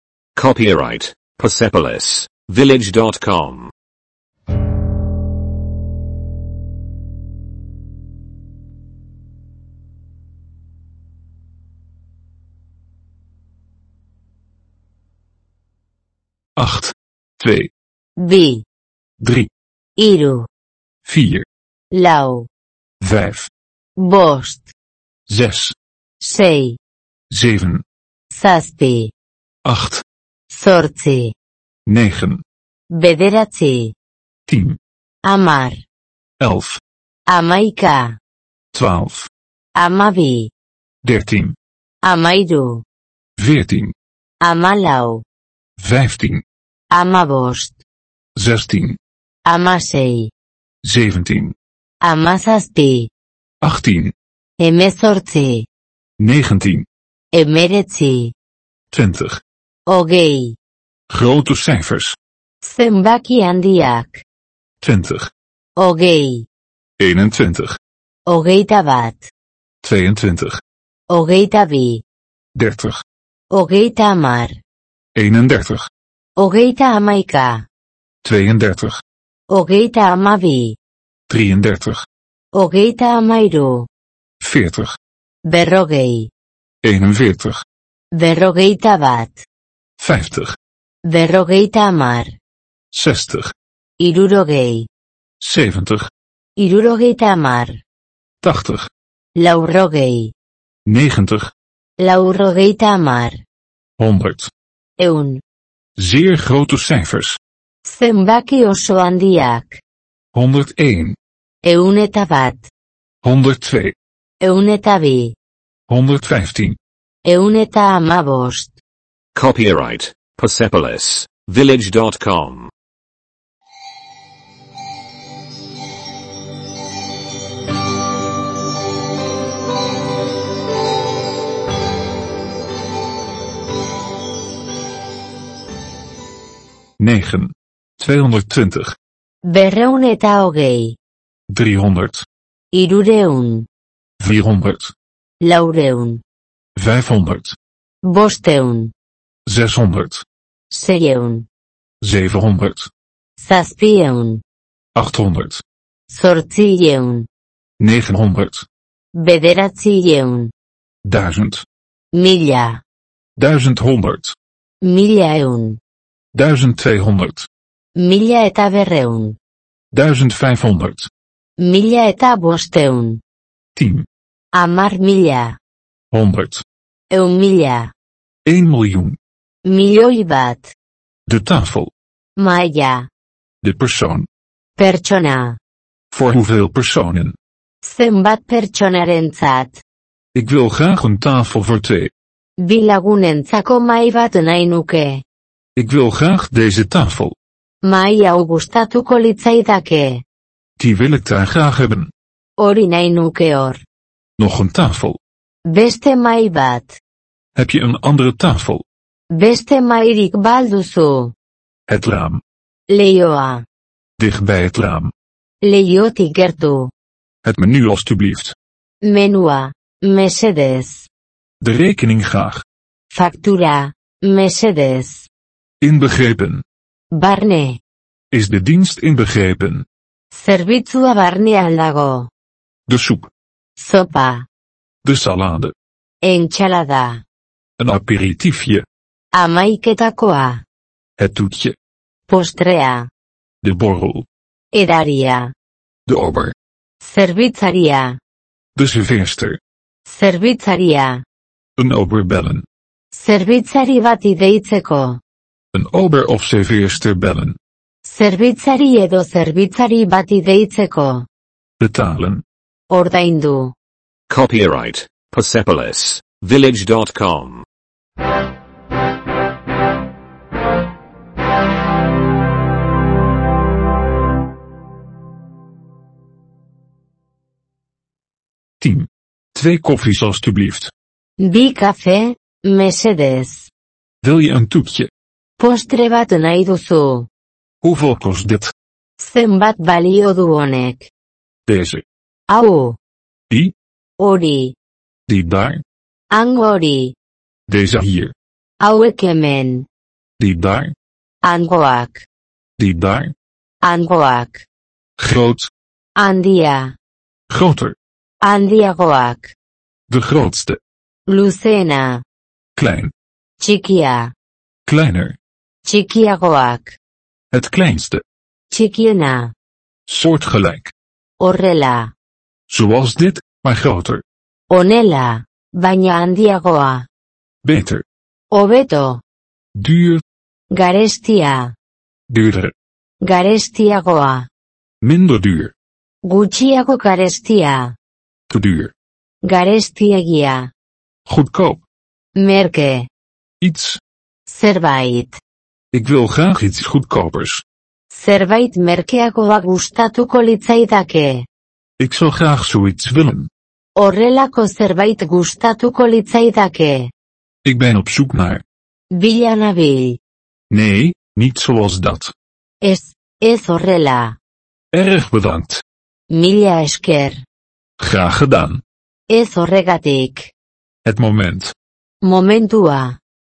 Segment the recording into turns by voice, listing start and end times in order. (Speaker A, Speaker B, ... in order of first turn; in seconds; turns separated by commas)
Speaker A: 0.3-3.7, Speaker B: 16.6-17.7, Speaker C: 18.2-18.6, Speaker B: 19.2-19.5, Speaker C: 20.0-20.5, Speaker B: 21.1-21.5, Speaker C: 21.9-22.5, Speaker B: 23.0-23.5, Speaker C: 24.0-24.7, Speaker B: 25.3-25.8, Speaker C: 26.2-26.8, Speaker B: 27.3-27.8, Speaker C: 28.3-29.1, Speaker B: 29.6-30.0, Speaker C: 30.5-31.4, Speaker B: 31.9-32.4, Speaker C: 32.9-34.0, Speaker B: 34.5-34.8, Speaker C: 35.2-35.8, Speaker B: 36.4-36.8, Speaker C: 37.3-38.2, Speaker B: 38.7-39.3, Speaker C: 39.8-40.5, Speaker B: 41.0-41.6, Speaker C: 42.0-42.8, Speaker B: 43.4-43.9, Speaker C: 44.4-45.2, Speaker B: 45.8-46.4, Speaker C: 46.9-47.8, Speaker B: 48.4-49.0, Speaker C: 49.5-50.3, Speaker B: 50.8-51.5, Speaker C: 52.0-53.1, Speaker B: 53.6-54.1, Speaker C: 54.6-55.7, Speaker B: 56.2-56.9, Speaker C: 57.3-58.3, Speaker B: 58.9-59.4, Speaker C: 59.9-60.6, Speaker B: 61.1-62.2, Speaker C: 62.6-64.2, Speaker B: 64.8-65.3, Speaker C: 65.8-66.5, Speaker B: 67.0-67.8, Speaker C: 68.3-69.3, Speaker B: 69.8-70.6, Speaker C: 71.1-72.0, Speaker B: 72.5-73.0, Speaker C: 73.5-74.6, Speaker B: 75.2-75.9, Speaker C: 76.4-77.7, Speaker B: 78.2-79.0, Speaker C: 79.5-80.8, Speaker B: 81.3-82.1, Speaker C: 82.5-83.9, Speaker B: 84.4-85.0, Speaker C: 85.5-86.3, Speaker B: 86.8-87.6, Speaker C: 88.1-89.5, Speaker B: 90.0-90.6, Speaker C: 91.0-92.3, Speaker B: 92.9-93.5, Speaker C: 94.0-94.9, Speaker B: 95.4-96.1, Speaker C: 96.6-97.8, Speaker B: 98.4-98.9, Speaker C: 99.4-100.3, Speaker B: 100.9-101.5, Speaker C: 102.0-103.4, Speaker B: 104.0-104.5, Speaker C: 105.0-105.4, Speaker B: 106.0-107.4, Speaker C: 107.8-109.8, Speaker B: 110.3-111.2, Speaker C: 111.6-112.7, Speaker B: 113.2-114.0, Speaker C: 114.4-115.4, Speaker B: 115.9-116.8, Speaker C: 117.2-118.8, Speaker A: 119.3-122.7, Speaker B: 137.0-139.0, Speaker C: 139.4-141.0, Speaker B: 141.5-142.3, Speaker C: 142.7-143.7, Speaker B: 144.2-144.9, Speaker C: 145.4-146.2, Speaker B: 146.8-147.6, Speaker C: 148.0-148.9, Speaker B: 149.5-150.2, Speaker C: 150.7-151.5, Speaker B: 152.0-152.9, Speaker C: 153.4-154.4, Speaker B: 154.9-155.6, Speaker C: 156.1-157.3, Speaker B: 157.8-158.7, Speaker C: 159.2-160.5, Speaker B: 161.1-161.7, Speaker C: 162.1-162.8, Speaker B: 163.4-164.3, Speaker C: 164.8-165.8, Speaker B: 166.3-167.5, Speaker C: 168.0-169.4, Speaker B: 169.9-171.1, Speaker C: 171.6-173.2, Speaker B: 173.8-174.1, Speaker C: 174.6-175.6, Speaker B: 176.1-176.6, Speaker C: 177.1-177.9, Speaker B: 178.4-179.2, Speaker C: 179.7-180.7, Speaker B: 181.3-181.9, Speaker C: 182.4-183.1, Speaker B: 183.6-184.3, Speaker C: 184.8-185.6, Speaker B: 186.1-187.4, Speaker C: 187.8-189.8, Speaker B: 190.3-192.1, Speaker C: 192.6-195.2, Speaker B: 195.8-197.3, Speaker C: 197.8-200.2, Speaker B: 200.8-202.1, Speaker C: 202.6-203.8, Speaker B: 204.4-205.2, Speaker C: 205.7-207.0, Speaker B: 207.6-208.8, Speaker C: 209.3-211.3, Speaker B: 211.9-212.4, Speaker C: 212.9-213.7, Speaker B: 214.2-215.1, Speaker C: 215.6-216.9, Speaker B: 217.4-218.6, Speaker C: 219.0-221.1, Speaker B: 221.6-222.6, Speaker C: 223.1-225.3, Speaker B: 225.8-226.6, Speaker C: 227.1-227.8, Speaker B: 228.3-229.9, Speaker C: 230.3-232.3, Speaker B: 232.9-233.3, Speaker C: 233.8-234.5, Speaker B: 235.0-235.7, Speaker C: 236.2-237.2, Speaker B: 237.8-238.8, Speaker C: 239.3-240.6, Speaker B: 241.2-241.8, Speaker C: 242.3-243.1, Speaker B: 243.6-244.3, Speaker C: 244.7-245.5, Speaker B: 246.1-246.5, Speaker C: 247.0-248.2, Speaker B: 248.8-249.6, Speaker C: 250.1-251.2, Speaker B: 251.8-252.7, Speaker C: 253.1-255.2, Speaker B: 255.7-257.6, Speaker C: 258.0-261.3, Speaker B: 261.8-262.4, Speaker C: 262.9-263.7, Speaker A: 264.3-267.6, Speaker B: 278.8-280.9, Speaker C: 281.4-283.7, Speaker B: 284.2-285.1, Speaker C: 285.6-287.3, Speaker B: 287.8-288.7, Speaker C: 289.2-291.1, Speaker B: 291.7-292.0, Speaker C: 292.5-293.0, Speaker C: 294.2-294.8, Speaker B: 295.3-295.8, Speaker C: 296.3-297.1, Speaker B: 297.7-298.3, Speaker C: 298.8-299.9, Speaker B: 300.4-300.9, Speaker C: 301.4-302.3, Speaker B: 302.8-303.3, Speaker C: 303.8-304.7, Speaker B: 305.2-305.7, Speaker C: 306.2-306.9, Speaker B: 307.5-308.0, Speaker C: 308.4-309.6, Speaker B: 310.1-310.8, Speaker C: 311.3-312.2, Speaker B: 312.8-313.1, Speaker C: 313.6-314.3, Speaker B: 314.9-315.4, Speaker C: 315.9-317.0, Speaker B: 317.5-318.2, Speaker C: 318.7-319.5, Speaker B: 320.1-320.9, Speaker C: 321.4-322.1, Speaker B: 322.7-324.2, Speaker C: 324.7-327.1, Speaker B: 327.6-328.0, Speaker C: 328.5-329.2, Speaker B: 329.8-330.2, Speaker C: 330.7-331.8, Speaker B: 332.3-332.7, Speaker C: 333.2-334.5, Speaker B: 335.0-335.7, Speaker C: 336.2-337.9, Speaker B: 338.5-338.9, Speaker C: 339.4-340.7, Speaker B: 341.3-341.8, Speaker C: 342.4-343.1, Speaker B: 343.6-344.0, Speaker C: 344.5-345.4, Speaker B: 345.9-347.6, Speaker C: 348.1-351.5, Speaker B: 352.0-353.5, Speaker C: 354.0-357.1, Speaker B: 357.6-358.6, Speaker C: 359.1-360.2, Speaker B: 360.7-362.3, Speaker C: 362.8-364.4, Speaker B: 364.9-365.8, Speaker C: 366.3-367.4, Speaker B: 368.0-368.8, Speaker C: 369.3-370.5, Speaker B: 371.1-371.7, Speaker C: 372.2-373.2